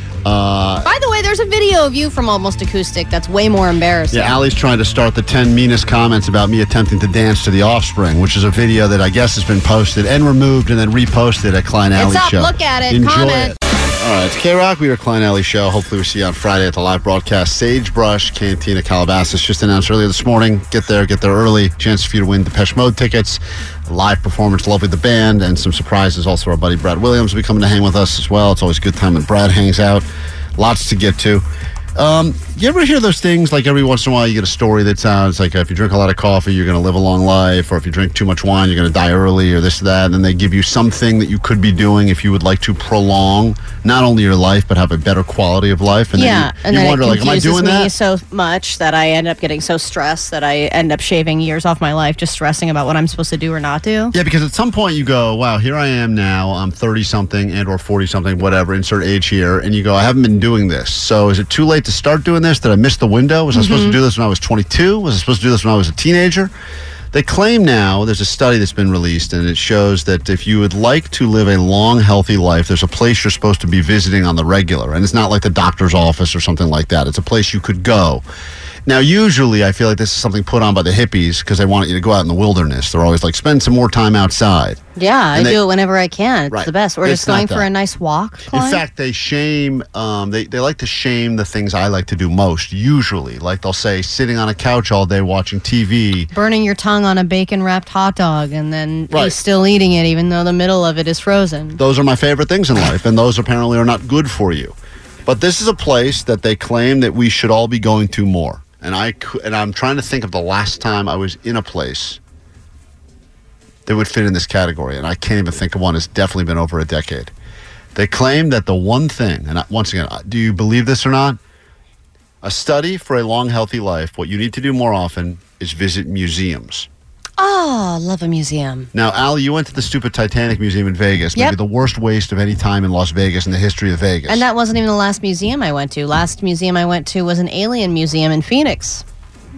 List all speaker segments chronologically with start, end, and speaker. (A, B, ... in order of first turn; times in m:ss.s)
0:00.2-0:00.9 A
0:00.8-0:04.4 B
0:04.1-0:31.4 A
0:12.0-0:13.6 B
0:32.0-0:47.9 A
0:46.2-0:54.1 B
0:54.1-1:06.5 A
1:03.5-1:04.0 B
1:07.1-1:18.2 A
1:18.8-1:24.8 A
1:25.0-1:28.8 B
1:25.3-1:25.6 A
1:26.5-1:27.7 A
1:28.4-1:36.3 A
1:36.3-1:41.8 B
1:39.1-1:39.4 A
1:41.8-1:44.7 A
1:45.2-1:52.2 A
1:53.9-1:57.3 A
1:57.9-2:01.4 A
2:02.4-2:06.9 A
2:07.4-2:08.9 B
2:08.9-2:14.4 A
2:14.3-2:19.0 B